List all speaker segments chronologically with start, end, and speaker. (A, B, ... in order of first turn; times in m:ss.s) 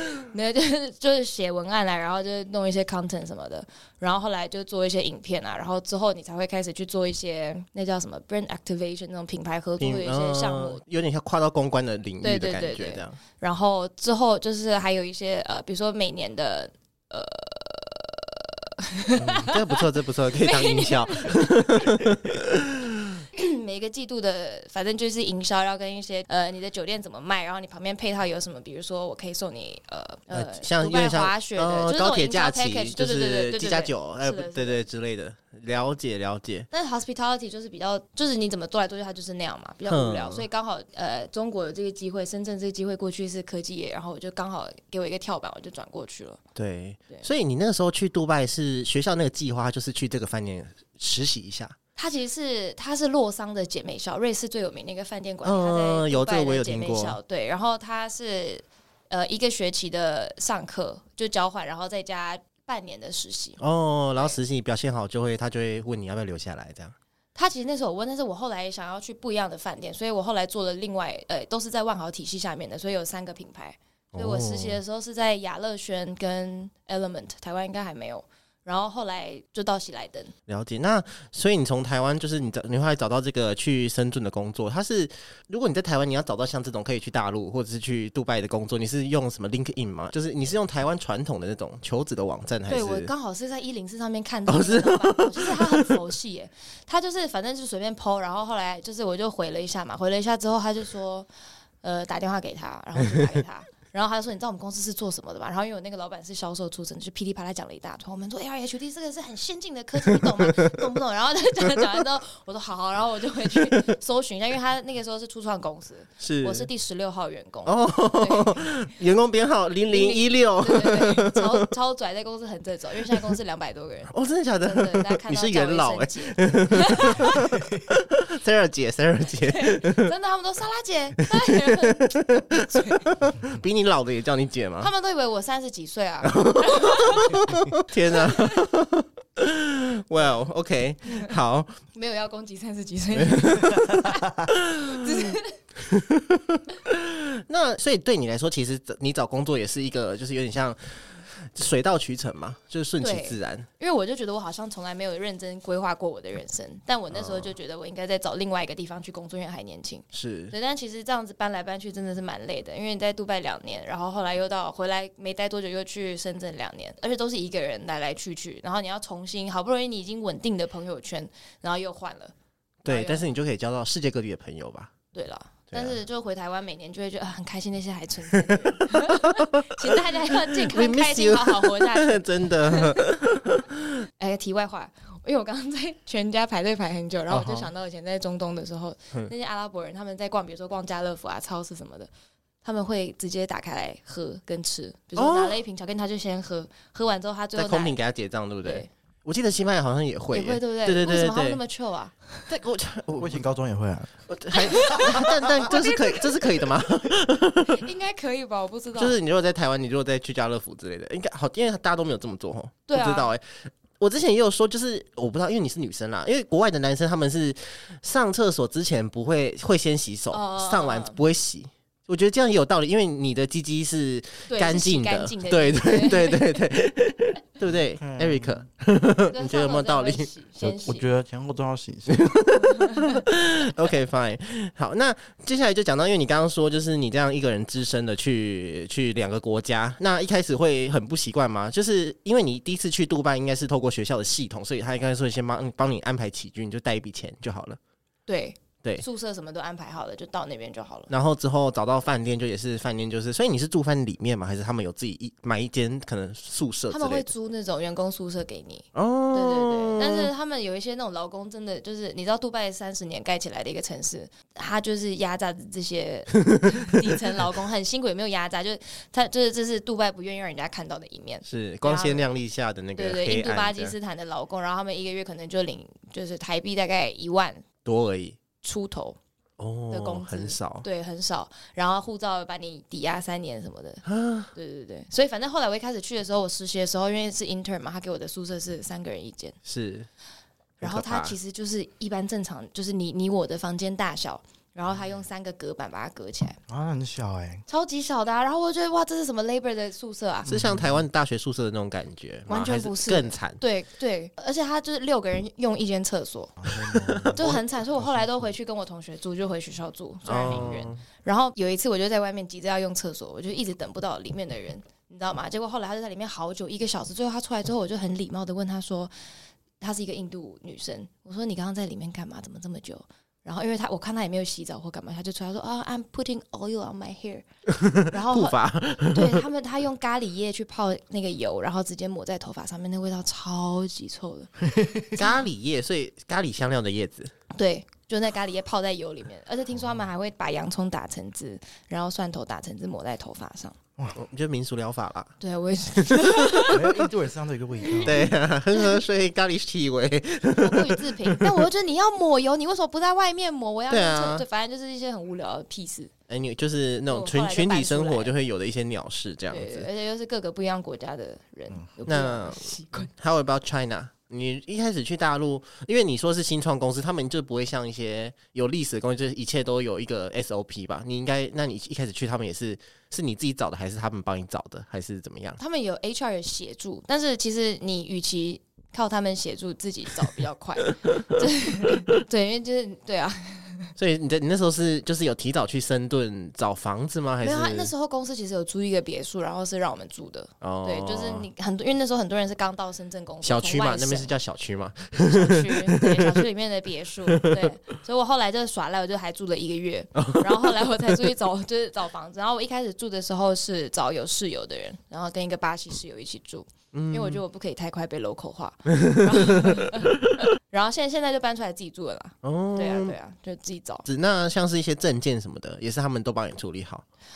0:00.1-0:10.8 A
0:09.8-0:13.2 B
0:12.2-0:19.8 A
0:19.1-0:23.2 B
0:20.4-0:21.5 A
0:23.3-0:34.8 A
0:30.3-0:36.7 B
0:36.7-0:46.4 A
0:39.9-0:40.4 B
0:46.5-0:51.8 B
0:52.0-1:03.6 A
0:55.4-0:57.2 B
1:03.6-1:07.0 B
1:07.3-1:20.3 A
1:14.1-1:14.8 B
1:20.5-1:33.1 B
1:32.7-1:41.3 A
1:34.5-1:36.0 B
1:41.8-1:58.6 A
1:50.0-1:51.0 B
1:53.6-1:53.8 B
1:56.2-1:56.7 B
1:57.6-2:01.6 B
1:59.9-2:04.1 A
2:04.1-2:10.1 B
2:04.6-2:07.4 A
2:09.5-2:13.1 A
2:11.2-2:14.9 B
2:14.8-2:17.4 A
2:16.2-2:21.8 B
2:18.1-2:18.6 A
2:21.9-2:25.6 A
2:23.1-2:33.7 B
2:33.0-2:52.3 A
2:37.1-2:37.5 B
2:40.1-2:40.5 B
2:52.8-2:54.9 B
2:52.9-2:53.3 A
2:55.1-3:03.0 A
2:55.7-2:56.0 B
2:58.5-3:03.9 B
3:04.2-3:12.1 A
3:07.3-3:07.7 B
3:12.6-3:18.0 A
3:15.2-3:15.6 B
3:17.5-3:21.6 B
3:18.6-3:18.9 A
3:20.3-3:22.3 A
3:22.5-3:23.4 B
3:23.1-3:24.2 C
3:24.3-3:27.8 B
3:24.5-3:26.4 A
3:27.6-3:29.2 A
3:29.0-3:50.3 B
3:32.9-3:33.3 A
3:40.3-3:41.2 A
3:44.5-3:46.4 A
3:48.0-3:48.6 C
3:49.3-3:51.1 A
3:50.6-3:52.3 C
3:52.1-4:07.8 B
3:52.6-3:53.2 A
4:08.3-4:11.1 A
4:11.1-4:17.3 B
4:16.9-4:32.2 A
4:18.9-4:20.3 B
4:31.4-4:33.9 B
4:32.9-4:37.6 A
4:37.8-4:38.4 B
4:38.6-4:39.2 A
4:39.6-4:40.8 B
4:39.9-4:49.5 A
4:44.0-4:44.5 B
4:49.6-4:50.1 B
4:50.8-4:51.4 B
4:50.8-4:56.6 A
4:56.7-4:57.6 C
4:57.7-5:00.5 A
5:00.4-5:03.6 B
5:00.5-5:01.0 C
5:02.5-5:06.5 A
5:06.6-5:07.4 C
5:06.7-5:07.6 B
5:07.3-5:19.1 A
5:08.0-5:08.5 C
5:10.2-5:11.0 B
5:19.8-5:27.4 A
5:27.8-5:29.4 B
5:28.0-5:34.5 A
5:34.8-5:35.0 C
5:35.1-5:37.3 B
5:37.5-5:43.8 A
5:44.1-5:45.3 B
5:45.4-5:46.8 A
5:46.0-5:47.1 B
5:46.7-5:48.3 C
5:47.9-5:48.3 A
5:48.0-5:51.5 B
5:50.6-5:56.1 A
5:53.9-5:54.4 B
5:56.3-5:59.9 B
5:57.1-5:58.3 A
5:59.5-6:03.1 A
6:02.0-6:15.6 B
6:15.6-6:23.9 A
6:24.0-6:27.9 B
6:27.4-6:34.3 A
6:30.6-6:31.5 B
6:33.4-6:36.4 B
6:35.1-6:54.0 A
6:37.3-6:37.7 B
6:40.2-6:41.1 B
6:46.9-6:47.4 B
6:49.0-6:50.4 B
6:52.4-6:53.2 B
6:54.0-6:57.0 B